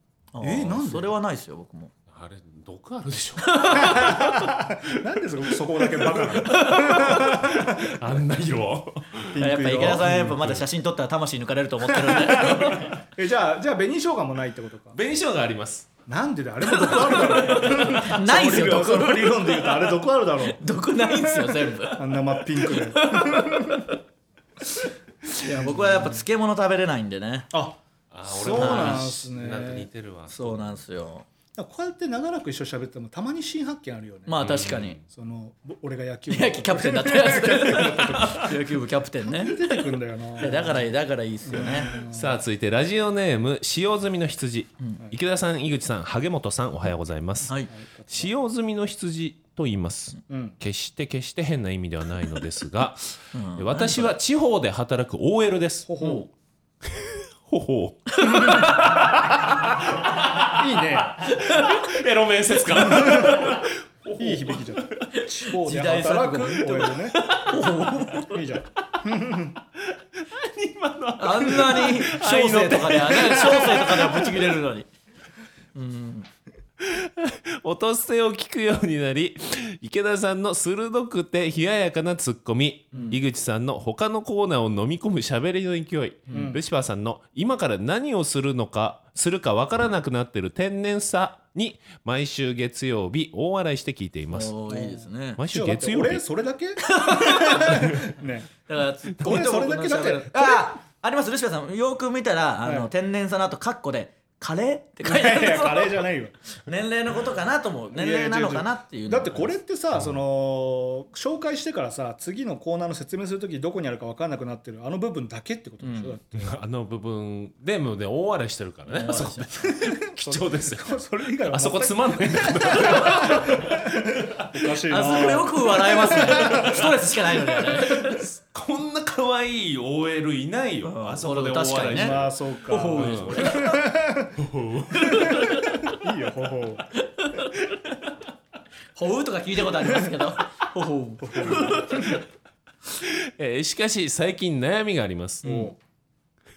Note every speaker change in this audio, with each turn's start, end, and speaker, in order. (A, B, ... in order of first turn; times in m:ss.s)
0:00.3-0:01.9 A
0:00.4-0:01.1 B
0:02.1-0:04.6 C
0:03.4-0:04.3 A
0:03.8-0:07.9 B
0:05.8-0:10.6 C
0:06.5-0:07.4 A
0:09.3-0:10.5 B
0:09.4-0:13.0 A
0:12.0-0:15.0 B
0:14.9-0:15.9 C
0:16.1-0:20.6 B
0:16.7-0:23.9 A
0:21.2-0:23.9 B
0:25.4-0:27.5 A
0:25.4-0:26.2 B
0:27.5-0:29.9 B
0:28.1-0:30.8 C
0:28.5-0:29.1 A
0:30.3-0:31.3 A
0:31.6-0:34.4 B
0:34.3-0:35.0 A
0:34.4-0:35.0 C
0:35.0-0:38.5 B
0:36.3-0:39.7 A
0:38.1-0:38.5 C
0:39.3-0:40.9 B
0:40.4-0:41.9 A
0:41.5-0:42.4 B
0:41.9-0:56.0 C
0:47.5-0:47.7 A
0:47.8-0:48.3 B
0:50.3-0:50.6 B
0:53.3-0:54.1 A
0:55.9-0:56.3 B
0:56.0-0:56.3 A
0:56.9-1:00.6 C
0:58.2-0:59.0 A
1:00.5-1:01.3 B
1:01.2-1:05.1 C
1:01.3-1:01.8 A
1:02.9-1:03.5 B
1:04.2-1:07.2 B
1:05.1-1:08.4 A
1:08.2-1:09.6 B
1:10.2-1:14.6 C
1:11.2-1:14.9 A
1:15.8-1:16.3 A
1:16.8-1:34.5 C
1:22.9-1:23.2 A
1:26.3-1:26.6 A
1:26.3-1:26.6 B
1:34.3-1:35.4 A
1:34.7-1:38.5 B
1:35.4-1:36.2 C
1:36.9-1:37.9 A
1:37.8-1:38.0 C
1:38.7-1:46.0 A
1:39.2-1:40.7 B
1:42.6-1:42.9 B
1:45.0-1:46.3 B
1:46.7-1:49.5 A
1:47.9-1:56.6 B
1:55.8-1:56.2 A
1:56.3-2:04.6 C
1:58.9-1:59.8 A
1:59.8-2:06.9 B
2:02.7-2:03.4 A
2:04.9-2:08.2 A
2:06.3-2:06.9 C
2:07.6-2:13.6 C
2:10.8-2:13.9 A
2:11.9-2:14.4 B
2:14.4-2:15.6 C
2:14.9-2:15.8 A
2:15.1-2:16.9 B
2:17.0-2:17.6 A
2:19.0-2:22.2 A
2:21.2-2:22.1 B
2:23.0-2:25.7 C
2:25.4-2:25.8 B